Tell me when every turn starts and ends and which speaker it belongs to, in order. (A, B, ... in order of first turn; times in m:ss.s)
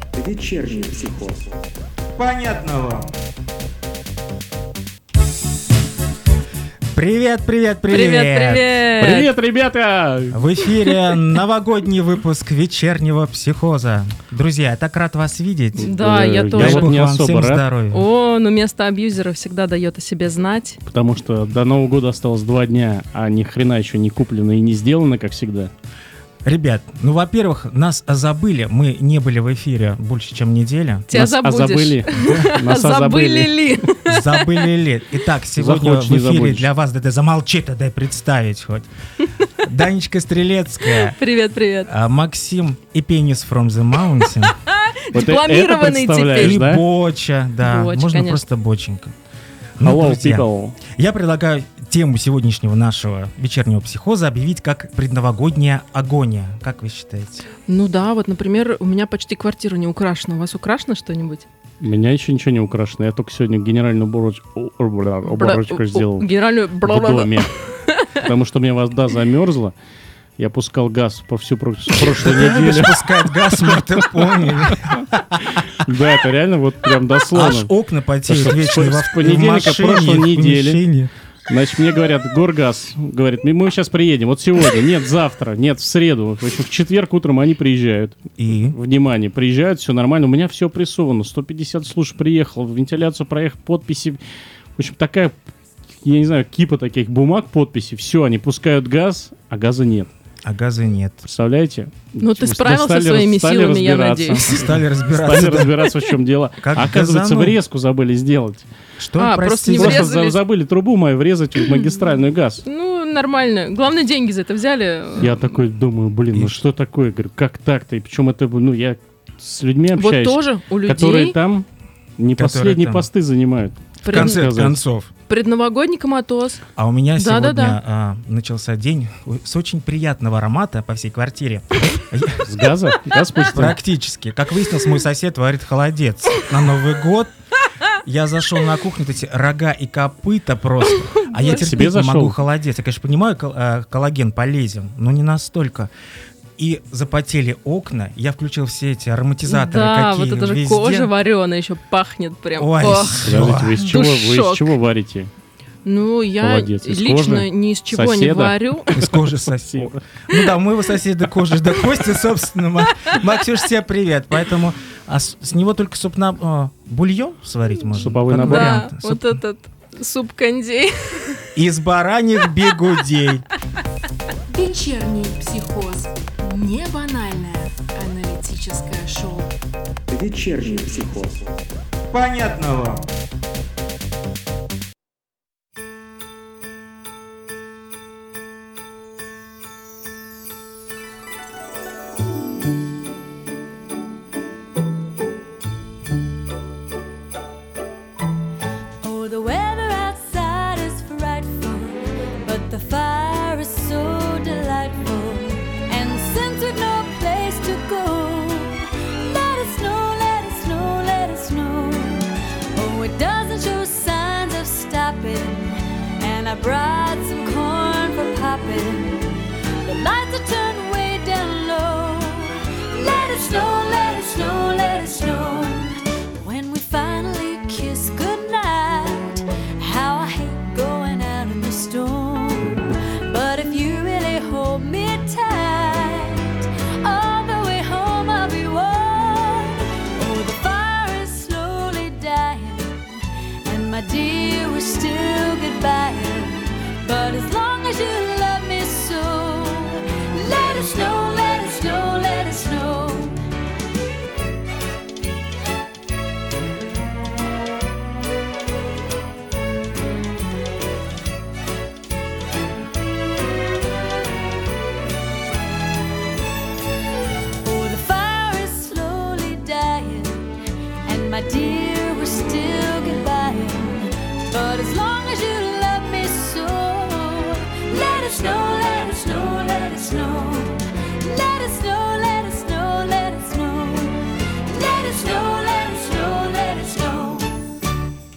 0:02.2-0:03.0 A
0:06.9-0:08.7 A
0:07.9-0:09.3 B
0:09.0-0:10.4 C
0:10.3-0:16.0 A
0:15.8-0:17.6 C
0:15.8-0:16.9 B
0:16.5-0:18.0 A
0:17.9-0:20.8 B
0:20.9-0:25.7 C
0:26.4-0:31.2 A
0:31.1-0:34.6 B
0:31.1-0:33.8 C
0:34.1-0:38.9 A
0:35.6-0:36.7 C
0:39.6-0:41.2 A
0:41.0-0:41.9 B
0:41.8-0:44.6 A
0:44.8-0:46.6 B
0:45.1-0:46.8 C
0:46.3-0:49.1 A
0:47.6-0:48.4 B
0:49.8-0:57.4 A
0:49.8-0:50.8 C
0:57.7-1:01.4 B
1:01.8-1:06.3 C
1:05.3-1:08.1 B
1:06.8-1:07.5 C
1:08.2-1:09.7 C
1:10.4-1:15.0 C
1:12.1-1:15.6 A
1:15.7-1:17.7 C
1:17.3-1:21.1 A
1:18.3-1:20.8 C
1:21.5-1:28.2 C
1:28.4-1:28.8 A
1:28.7-1:34.2 C
1:34.8-1:35.3 C
1:36.0-1:40.1 C
1:40.4-1:41.2 A
1:41.2-1:48.7 C
1:42.2-1:44.5 B
1:44.4-1:45.9 A
1:46.6-1:47.6 A
1:49.0-1:50.1 A
1:49.2-1:50.4 B
1:49.7-1:52.6 C
1:52.7-1:55.4 B
1:55.2-2:01.7 C
2:00.0-2:01.3 B
2:02.2-2:04.8 C
2:02.3-2:03.1 A
2:04.0-2:04.5 B
2:04.1-2:05.1 A
2:05.3-2:06.6 B
2:06.8-2:12.5 A
2:07.2-2:07.8 B
2:12.4-2:13.8 C
2:13.5-2:17.3 A
2:18.0-2:25.9 A
2:21.2-2:21.7 B
2:21.5-2:22.4 C
2:26.6-2:31.1 A
2:29.5-2:34.7 B
2:32.6-2:33.9 A
2:33.2-2:35.3 C
2:35.8-2:38.9 B
2:36.4-2:40.0 C
2:38.9-2:49.4 A
2:47.9-2:48.9 C
2:48.3-2:51.4 B
2:51.6-2:53.4 A
2:54.5-2:59.5 D
3:02.1-3:03.0 A
3:19.0-4:03.1 E
4:03.6-4:13.4 E
4:27.6-4:30.5 E
4:31.0-4:47.5 E